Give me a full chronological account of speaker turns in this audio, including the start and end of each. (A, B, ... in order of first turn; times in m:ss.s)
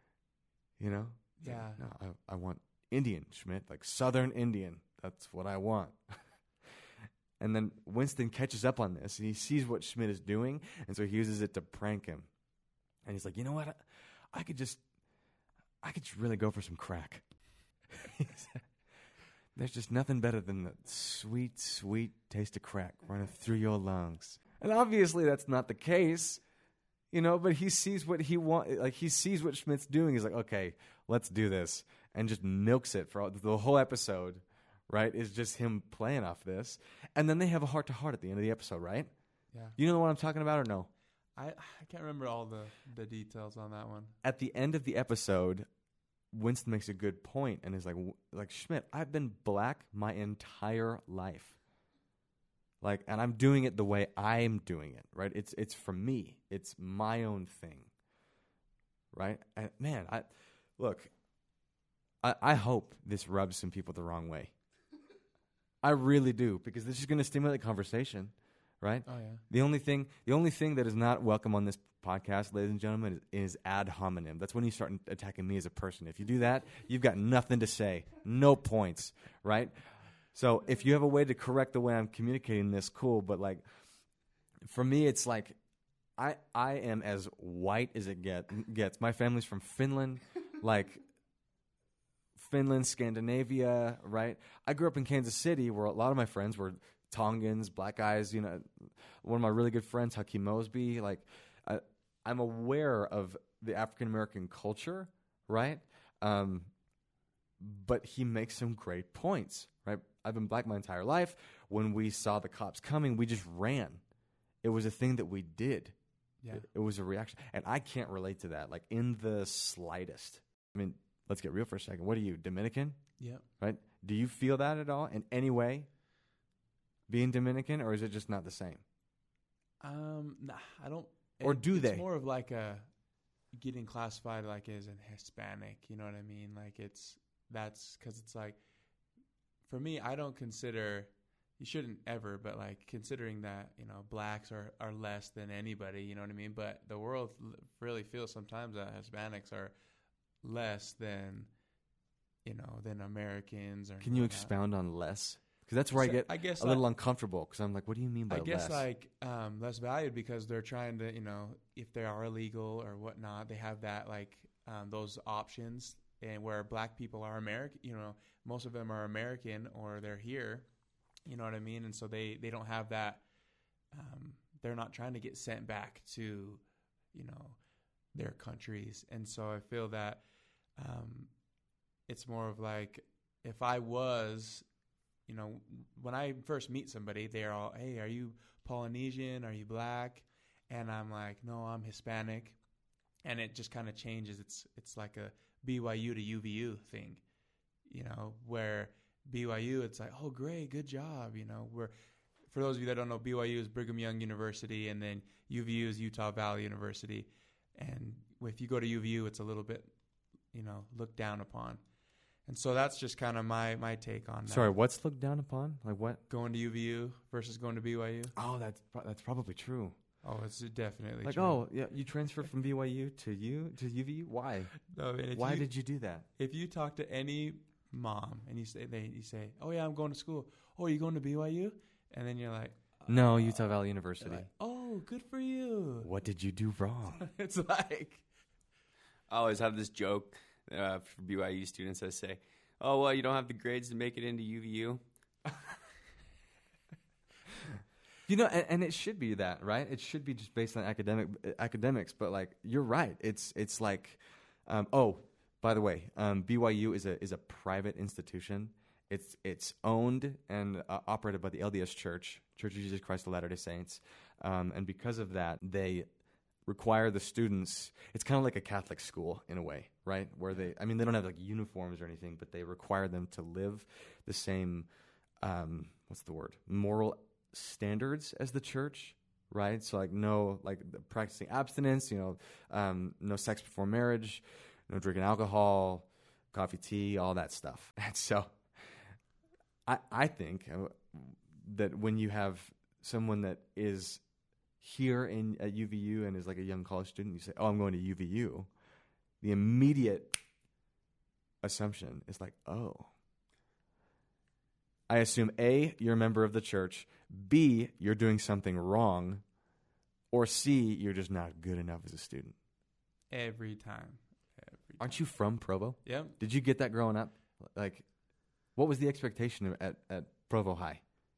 0:00.8-0:06.2 A
0:01.4-0:01.8 B
0:07.4-0:12.3 A
0:13.0-0:14.8 A
0:15.8-0:17.2 A
0:17.9-0:18.6 A
0:19.5-0:26.4 A
0:27.1-0:39.1 A
0:39.8-0:40.9 A
0:41.4-0:44.1 B
0:44.2-0:45.7 A
0:46.3-0:51.6 A
0:52.8-0:57.9 A
0:59.1-1:01.1 A
1:02.2-1:04.5 A
1:05.8-1:19.8 A
1:09.0-1:09.4 B
1:20.3-1:23.6 A
1:24.7-1:25.6 A
1:26.2-1:31.0 A
1:32.4-1:46.7 A
1:47.6-1:54.0 A
1:54.6-1:55.9 A
1:56.5-2:03.0 A
2:03.2-2:03.4 B
2:03.6-2:05.9 A
2:07.1-2:08.8 A
2:09.8-2:12.9 B
2:11.4-2:12.0 A
2:13.5-2:18.6 B
2:19.7-2:29.7 B
2:30.4-2:31.5 B
2:32.4-2:34.5 B
2:34.0-2:38.8 A
2:35.9-2:36.8 B
2:38.3-2:50.6 B
2:51.2-2:53.2 B
2:53.9-2:57.6 B
2:58.1-3:00.2 B
3:00.8-3:01.3 B
3:02.1-3:04.6 B
3:05.3-3:12.6 B
3:13.2-3:17.2 B
3:17.9-3:21.9 B
3:22.5-3:29.9 B
3:30.5-3:31.8 B
3:32.5-3:34.7 B
3:34.5-3:36.2 A
3:36.3-3:38.3 B
3:38.4-3:40.0 A
3:40.2-3:41.6 B
3:41.2-3:44.7 A
3:44.8-3:45.7 B
3:45.3-3:46.2 A
3:46.4-3:53.5 B
3:53.1-3:54.5 A
3:54.2-3:56.1 B
3:56.0-3:57.3 A
3:57.2-3:58.2 B
3:59.3-4:05.0 C
4:08.3-4:26.1 A
4:26.6-4:34.9 A
4:35.4-4:49.0 A
4:49.8-4:54.2 A
4:54.8-4:58.7 A
4:59.4-5:00.4 A
5:01.6-5:03.1 A
5:05.1-5:09.4 A
5:10.3-5:12.5 A
5:13.3-5:15.2 B
5:15.0-5:18.0 A
5:16.0-5:16.4 B
5:18.8-5:21.0 A